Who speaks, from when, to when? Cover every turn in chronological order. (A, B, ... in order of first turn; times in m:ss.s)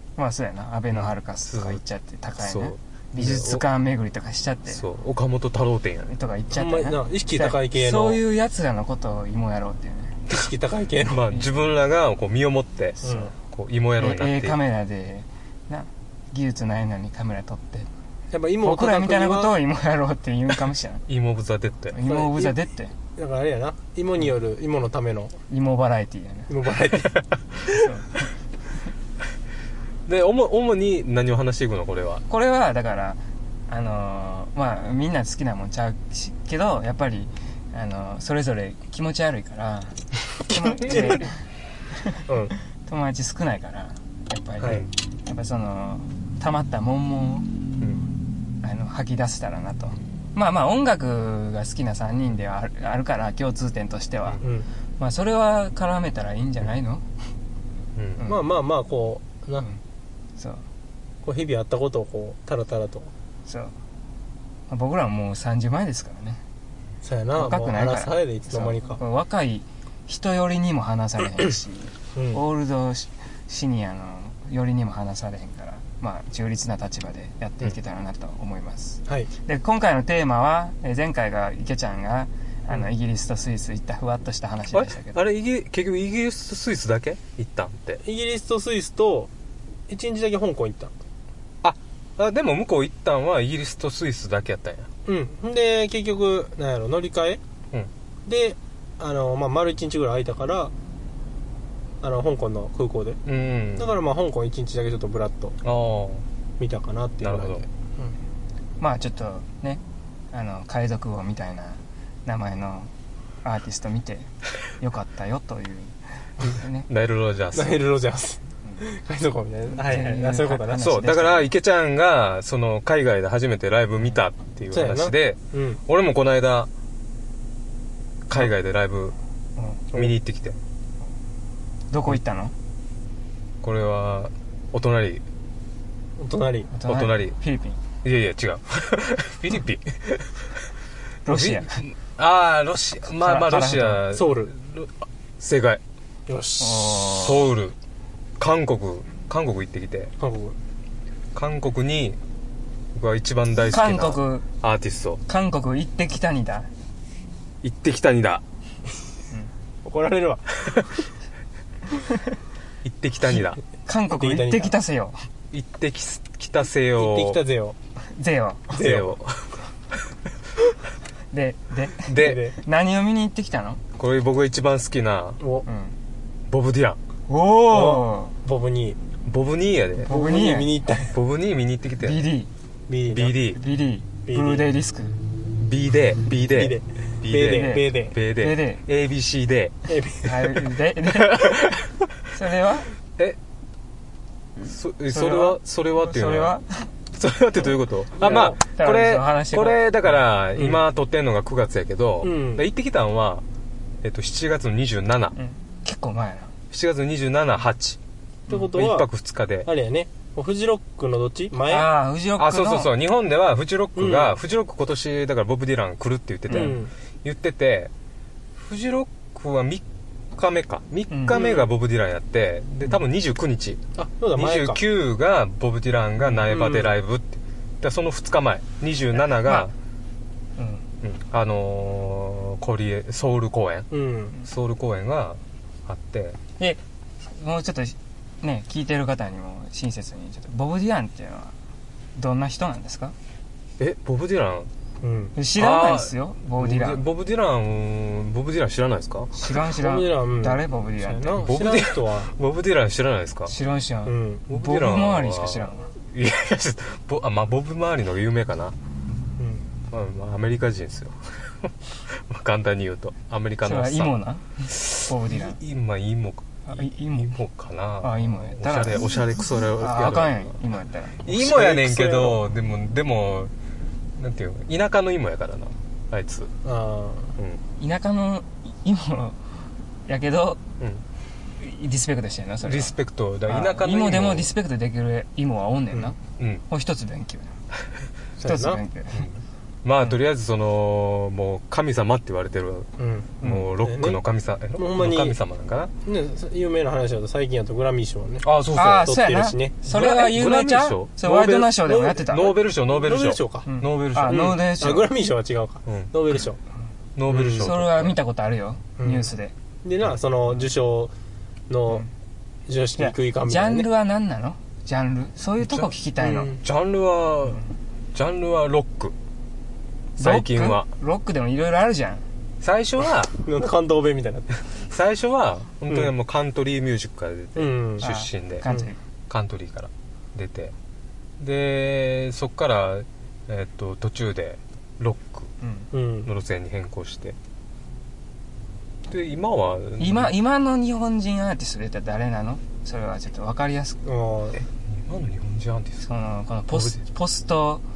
0:00.2-0:04.8 A
0:00.9-0:01.8 B
0:02.4-0:03.6 B
0:04.7-0:06.1 B
0:06.1-0:10.2 A
0:06.5-0:08.2 C
0:10.3-0:11.2 C
0:11.0-0:14.6 B
0:13.0-0:13.3 C
0:14.0-0:17.9 A
0:18.3-0:19.5 C
0:18.6-0:21.0 A
0:21.1-0:22.0 B
0:21.9-0:22.9 A
0:22.0-0:22.6 C
0:23.2-0:25.4 C
0:25.5-0:26.5 A
0:26.5-0:27.2 C
0:27.6-0:28.3 A
0:30.0-0:32.2 B
0:32.3-0:41.3 A
0:40.8-0:41.2 C
0:42.0-0:42.2 A
0:42.3-0:42.5 C
0:42.8-0:47.5 A
0:48.6-0:54.4 A
0:55.0-0:57.0 A
0:58.0-0:58.2 B
0:58.2-0:59.7 C
1:00.4-1:00.6 A
1:01.2-1:03.1 C
1:03.4-1:03.7 A
1:04.7-1:06.4 A
1:07.0-1:09.0 C
1:07.4-1:25.2 A
1:12.1-1:12.4 C
1:24.7-1:28.0 B
1:28.0-1:29.3 C
1:29.9-1:30.9 C
1:31.6-1:34.9 B
1:35.0-1:37.4 C
1:38.2-1:40.7 C
1:42.0-1:43.2 C
1:43.2-1:43.9 B
1:43.8-1:45.6 C
1:45.6-1:46.2 B
1:46.6-1:48.1 C
1:47.2-1:47.6 B
1:48.8-1:52.9 A
1:53.4-1:56.9 A
1:56.9-1:57.8 B
1:57.5-2:00.9 C
1:59.8-2:01.5 A
2:00.8-2:06.7 B
2:04.7-2:05.8 C
2:08.2-2:09.2 B
2:09.9-2:10.6 B
2:11.9-2:12.5 A
2:13.6-2:15.2 B
2:16.2-2:16.7 C
2:16.7-2:17.8 A
2:16.8-2:17.4 B
2:18.0-2:20.5 B
2:21.2-2:21.8 A
2:21.2-2:25.8 B
2:23.2-2:24.0 A
2:24.1-2:24.5 C
2:26.3-2:27.4 C
2:26.6-2:27.4 A
2:27.1-2:27.8 B
2:28.4-2:30.1 B
2:30.2-2:30.5 C
2:31.3-2:32.2 B
2:32.9-2:35.2 B
2:33.6-2:34.4 A
2:35.2-2:36.7 A
2:37.6-2:38.4 B
2:39.8-2:40.7 C
2:42.8-2:43.6 B
2:43.8-2:45.2 A
2:44.1-2:44.8 C
2:45.5-2:47.4 B
2:47.0-2:47.8 C
2:48.1-2:48.8 A
2:48.7-2:49.2 C
2:48.7-2:49.6 B
2:51.3-2:53.8 A
2:52.0-2:52.4 B
2:52.2-2:52.6 C
2:54.0-2:55.4 B
2:55.4-2:55.6 C
2:55.6-2:55.9 A
2:56.5-2:57.0 B
2:57.3-2:58.3 A
2:57.7-2:59.0 C
2:59.2-3:00.1 B
3:00.0-3:01.1 C
3:00.1-3:00.8 A
3:01.1-3:02.3 B
3:02.0-3:02.5 A
3:02.9-3:03.4 C
3:03.1-3:03.6 B
3:03.5-3:05.2 A
3:04.3-3:04.7 C
3:05.6-3:09.8 B
3:06.5-3:08.1 C
3:07.3-3:08.8 A
3:09.9-3:10.6 C
3:10.2-3:11.7 A
3:11.1-3:12.0 B
3:12.3-3:12.9 A
3:14.7-3:16.5 B
3:15.1-3:16.9 A
3:17.1-3:23.4 B
3:18.2-3:18.5 C
3:18.2-3:19.8 A
3:20.6-3:20.8 C
3:22.2-3:22.6 C
3:24.0-3:25.3 B
3:25.4-3:26.5 A
3:26.7-3:28.0 B
3:28.5-3:29.1 C
3:28.7-3:29.7 B
3:29.6-3:31.9 C
3:31.6-3:32.9 A
3:32.4-3:37.9 B
3:34.0-3:34.4 C
3:36.5-3:36.8 A
3:36.5-3:36.9 C
3:38.5-3:43.8 B
3:41.1-3:41.4 A
3:41.3-3:41.7 C
3:44.0-3:44.8 C
3:44.3-3:49.7 B
3:46.4-3:46.9 C
3:50.6-3:50.8 A
3:51.0-3:53.9 B
3:53.9-3:54.4 C
3:54.4-3:56.4 B
3:57.3-4:01.5 A
4:02.2-4:03.1 A
4:03.8-4:04.7 B
4:05.0-4:05.3 C
4:05.4-4:07.0 A
4:05.6-4:09.3 B
4:09.3-4:11.4 A
4:09.5-4:12.3 C
4:11.3-4:13.5 B
4:13.5-4:15.9 A
4:14.0-4:14.5 C
4:14.5-4:18.7 B
4:19.4-4:19.6 C
4:19.9-4:24.1 B
4:23.6-4:25.6 A
4:24.7-4:30.6 B
4:26.7-4:27.4 A
4:28.0-4:29.2 A
4:29.7-4:31.2 A
4:31.2-4:33.5 B
4:31.2-4:32.4 C
4:34.2-4:36.5 B
4:36.6-4:37.3 C
4:37.8-4:39.4 A
4:40.1-4:40.6 A
4:41.6-4:42.9 A
4:42.6-4:44.5 B
4:43.5-4:46.2 A
4:46.4-4:46.6 B
4:46.7-4:47.5 A
4:48.4-4:48.8 C
4:48.4-4:49.3 A
4:49.8-4:52.9 B
4:53.0-4:54.2 C
4:53.4-4:55.9 B
4:53.4-4:53.7 A
4:54.8-4:55.4 C
4:56.0-4:59.8 C
4:58.4-4:59.1 B
4:58.7-5:02.5 A
4:59.9-5:04.6 B
5:01.9-5:03.7 C
5:03.6-5:05.1 A
5:04.2-5:06.6 C
5:05.8-5:06.1 B
5:07.2-5:08.2 B
5:07.3-5:07.7 C
5:07.5-5:09.5 A
5:09.0-5:09.3 C
5:09.8-5:11.1 C
5:11.7-5:12.1 C
5:12.7-5:13.9 C
5:13.0-5:16.6 A
5:16.2-5:16.6 C
5:16.6-5:19.1 B
5:20.2-5:20.9 B
5:20.2-5:22.2 A
5:22.6-5:23.3 B
5:23.4-5:24.6 C
5:24.8-5:28.7 B
5:25.9-5:26.1 C
5:27.6-5:28.1 C
5:28.0-5:29.0 A
5:29.3-5:30.7 B
5:31.4-5:35.5 B
5:35.6-5:35.9 A
5:35.9-5:36.3 C
5:36.2-5:37.4 B
5:39.1-5:40.3 B
5:40.0-5:44.0 A
5:44.0-5:44.6 C
5:44.6-5:46.1 B
5:46.0-5:47.8 A
5:46.7-5:47.0 B